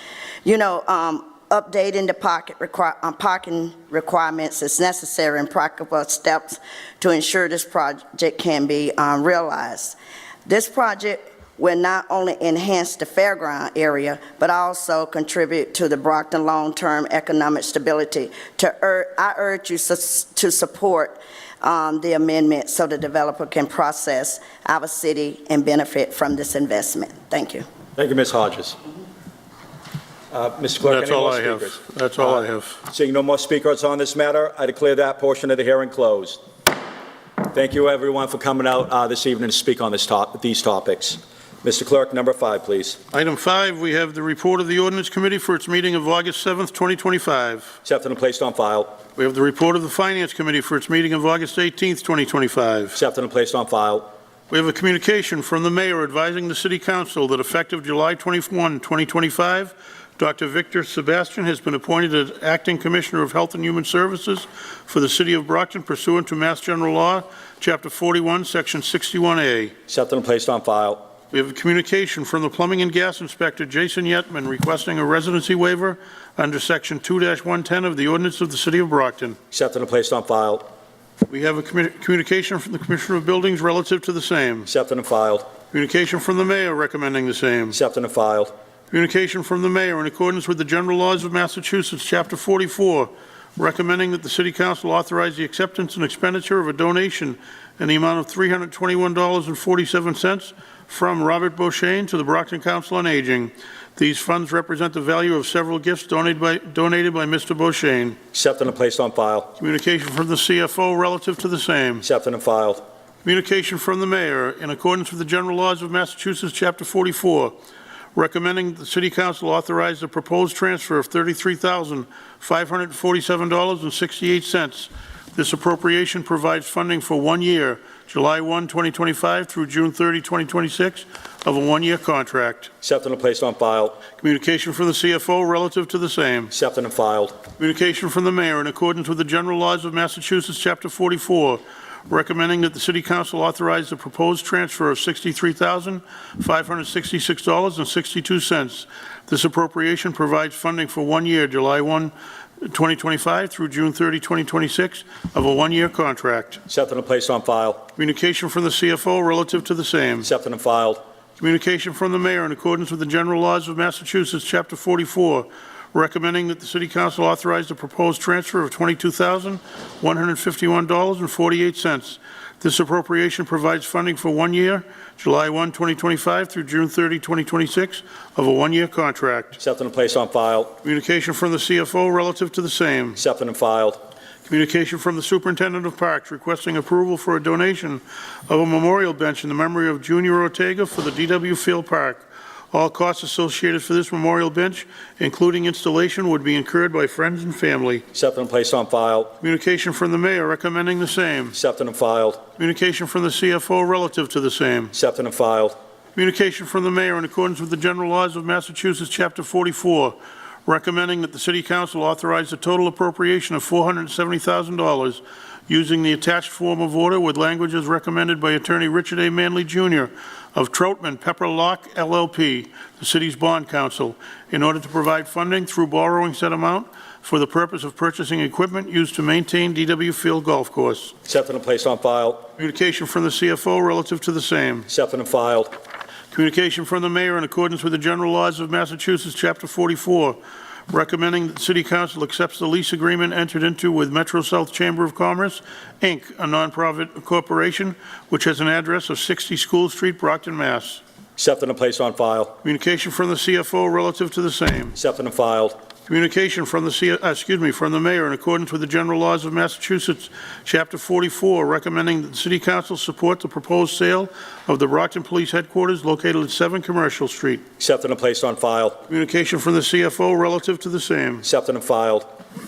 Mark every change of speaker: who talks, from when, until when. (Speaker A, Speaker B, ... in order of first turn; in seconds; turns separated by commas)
Speaker A: 0.4-27.7, Speaker B: 28.0-28.8, Speaker B: 30.3-36.4, Speaker C: 30.9-32.8, Speaker B: 37.5-43.0, Speaker C: 43.1-47.7, Speaker B: 47.9-49.0, Speaker C: 49.2-53.0, Speaker B: 52.9-54.1, Speaker C: 54.5-69.8, Speaker B: 69.9-71.1, Speaker C: 71.3-79.4, Speaker B: 79.5-80.7, Speaker C: 81.3-84.7, Speaker B: 84.7-85.5, Speaker C: 85.7-87.8, Speaker B: 87.7-88.5, Speaker C: 88.9-108.2, Speaker B: 108.3-109.5, Speaker C: 109.6-112.0, Speaker B: 112.0-112.8, Speaker C: 113.2-117.5, Speaker C: 118.2-132.7, Speaker B: 132.8-134.0, Speaker C: 134.2-136.5, Speaker B: 136.5-137.4, Speaker C: 137.6-156.6, Speaker B: 156.7-157.9, Speaker C: 158.0-160.3, Speaker B: 160.2-161.0, Speaker C: 161.4-179.6, Speaker B: 179.6-180.8, Speaker C: 180.8-183.2, Speaker B: 183.2-184.0, Speaker C: 184.5-198.1, Speaker B: 198.1-199.3, Speaker C: 199.4-201.6, Speaker B: 201.5-202.5, Speaker C: 202.6-204.9, Speaker B: 204.9-205.8, Speaker C: 206.2-231.1, Speaker B: 231.2-232.5, Speaker C: 232.6-234.9, Speaker B: 234.9-235.7, Speaker C: 236.3-240.4, Speaker C: 240.9-251.0, Speaker B: 251.4-252.6, Speaker C: 252.6-254.9, Speaker B: 254.9-255.8, Speaker C: 256.1-267.6, Speaker B: 267.8-269.0, Speaker C: 269.1-271.4, Speaker B: 271.4-272.3